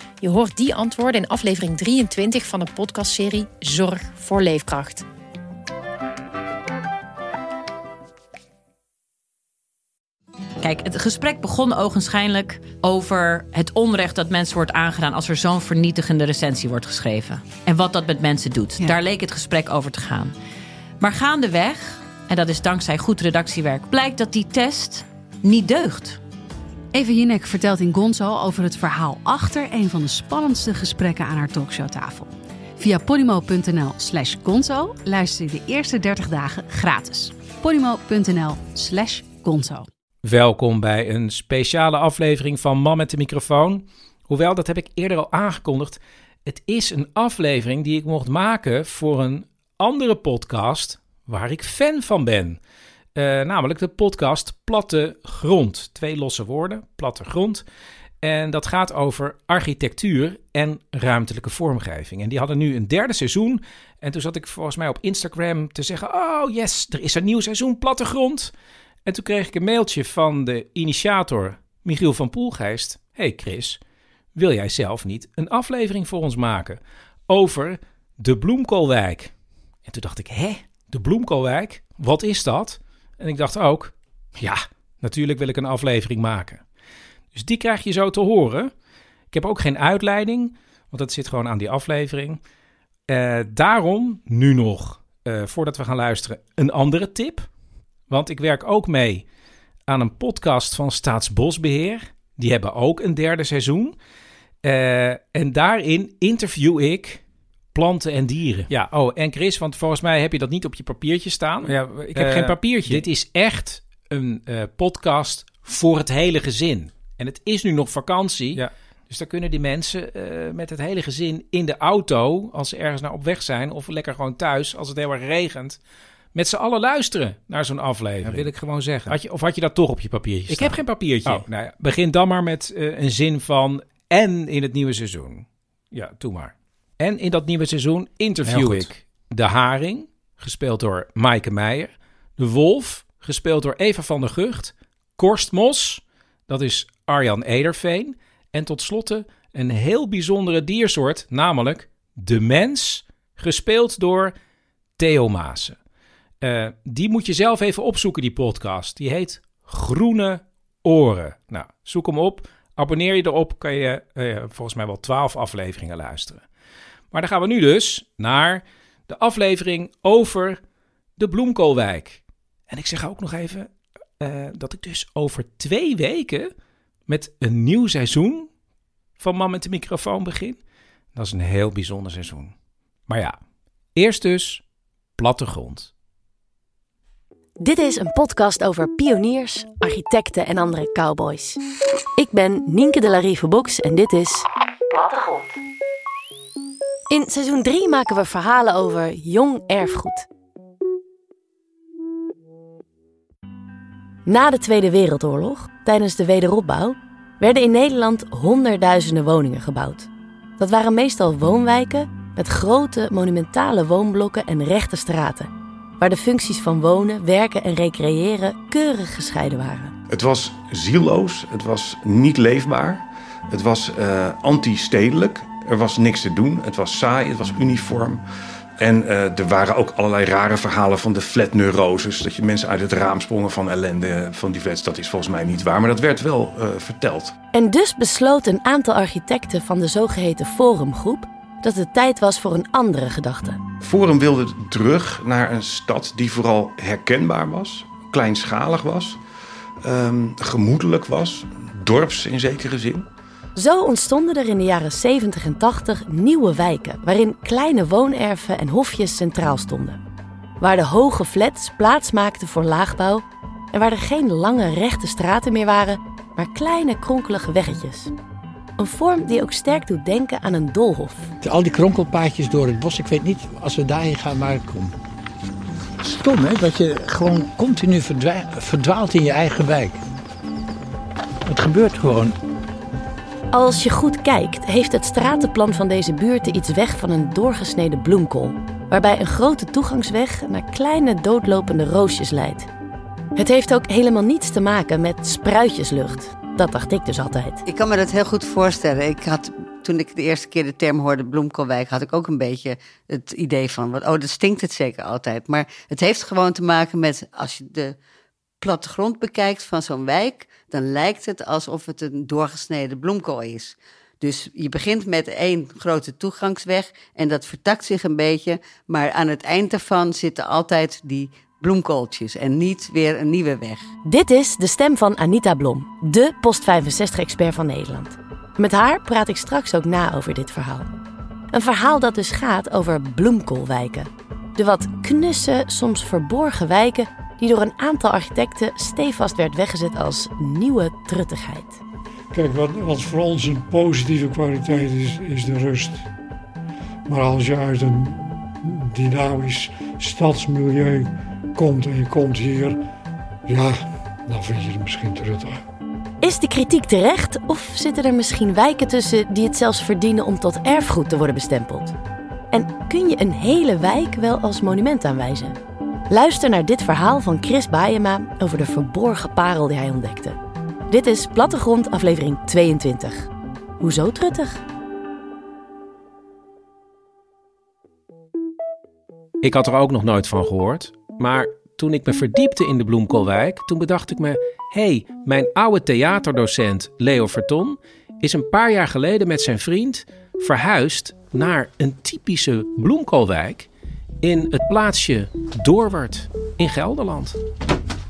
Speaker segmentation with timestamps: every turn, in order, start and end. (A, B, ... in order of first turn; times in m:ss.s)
0:00.2-0:05.0 A
0:10.6-0:20.3 B
0:21.0-0:26.2 B
0:26.9-0:39.9 C
0:40.2-0:52.6 D
0:53.2-0:57.6 D
0:58.2-1:08.5 D
1:09.0-1:13.8 D
1:14.3-1:19.3 D
1:19.8-1:26.6 D
1:27.3-1:28.7 D
1:29.3-1:32.4 D
1:33.1-1:37.5 D
1:38.1-1:39.2 D
1:39.9-1:44.0 D
1:44.6-1:47.2 D
1:47.7-2:05.8 D
1:52.1-1:52.9 E
2:06.3-2:34.3 D
2:18.4-2:18.8 E
2:35.0-2:35.8 D
2:36.4-2:46.4 D
2:47.1-2:50.6 D
2:51.2-2:53.7 D
2:54.2-2:56.5 D
2:57.1-2:58.5 D
2:59.2-3:00.6 D
3:01.1-3:02.5 D
3:03.1-3:03.4 D
3:03.9-3:04.6 D
3:05.2-3:05.9 D
3:07.6-3:11.6 F
3:12.2-3:15.4 F
3:17.1-3:20.3 F
3:24.2-3:39.9 F
3:40.1-3:48.2 G
3:48.8-3:57.3 G
3:57.5-4:03.6 F
4:03.8-4:09.2 G
4:09.8-4:13.1 G
4:13.6-4:20.0 F
4:20.6-4:28.1 F
4:28.8-4:31.3 F
4:31.4-4:34.9 E
4:36.0-4:40.0 E
4:41.4-4:42.4 E
4:43.5-4:52.7 F
4:53.4-4:57.6 F
4:57.6-5:08.0 H
5:08.6-5:23.9 H
5:24.0-5:30.9 F
5:31.5-5:41.8 F
5:42.3-5:46.1 I
5:47.1-5:52.8 I
5:53.5-5:55.6 I
5:56.2-6:01.9 F
6:02.5-6:10.4 F
6:10.9-6:14.6 F
6:19.4-6:33.7 D
6:34.2-6:37.4 D